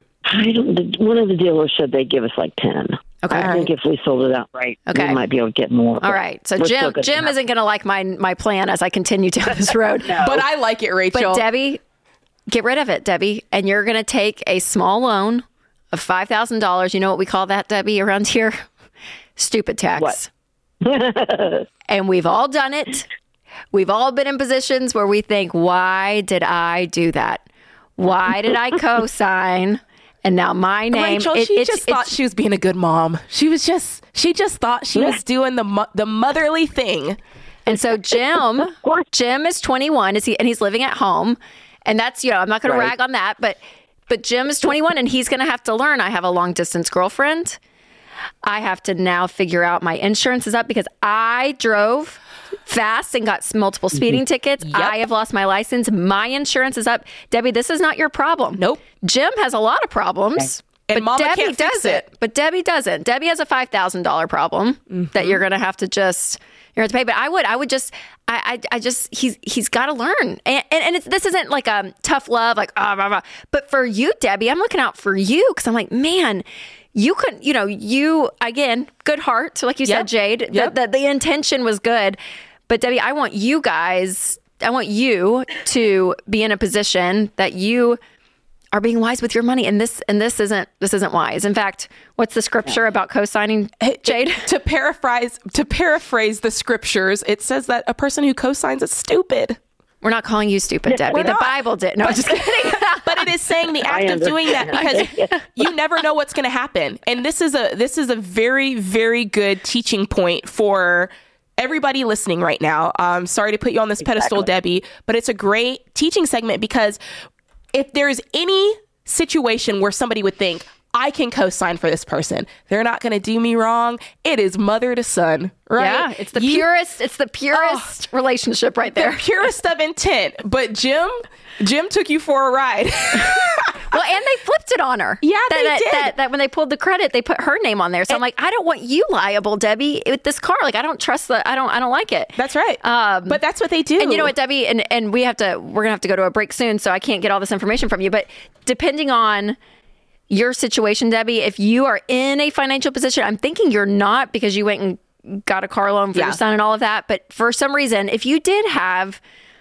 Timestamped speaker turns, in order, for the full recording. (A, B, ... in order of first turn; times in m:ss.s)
0:00.2-0:07.4 A
0:03.2-0:03.5 B
0:03.4-0:03.7 C
0:04.9-0:05.2 B
0:06.0-0:10.3 B
0:10.0-0:10.4 A
0:10.2-0:11.4 C
0:11.1-0:11.8 B
0:12.5-0:18.6 B
0:19.4-0:20.3 B
0:20.8-0:21.6 A
0:21.9-0:23.1 B
0:23.7-0:27.4 B
0:28.0-0:32.1 B
0:30.9-0:37.2 C
0:37.7-0:47.6 B
0:42.7-0:42.9 A
0:48.4-1:28.0 B
0:54.7-0:55.0 C
1:00.9-1:02.1 C
1:05.0-1:05.4 C
1:19.8-1:20.7 C
1:28.7-1:34.5 B
1:33.8-1:39.6 C
1:40.0-1:43.3 B
1:40.9-1:41.2 A
1:41.1-1:57.0 C
1:43.9-1:45.5 A
1:57.7-2:06.7 C
2:05.8-2:09.2 B
2:07.5-2:07.9 C
2:09.0-2:14.0 C
2:13.9-2:23.4 B
2:15.2-2:16.1 C
2:22.4-2:24.3 C
2:24.0-2:29.6 B
2:30.3-2:39.2 B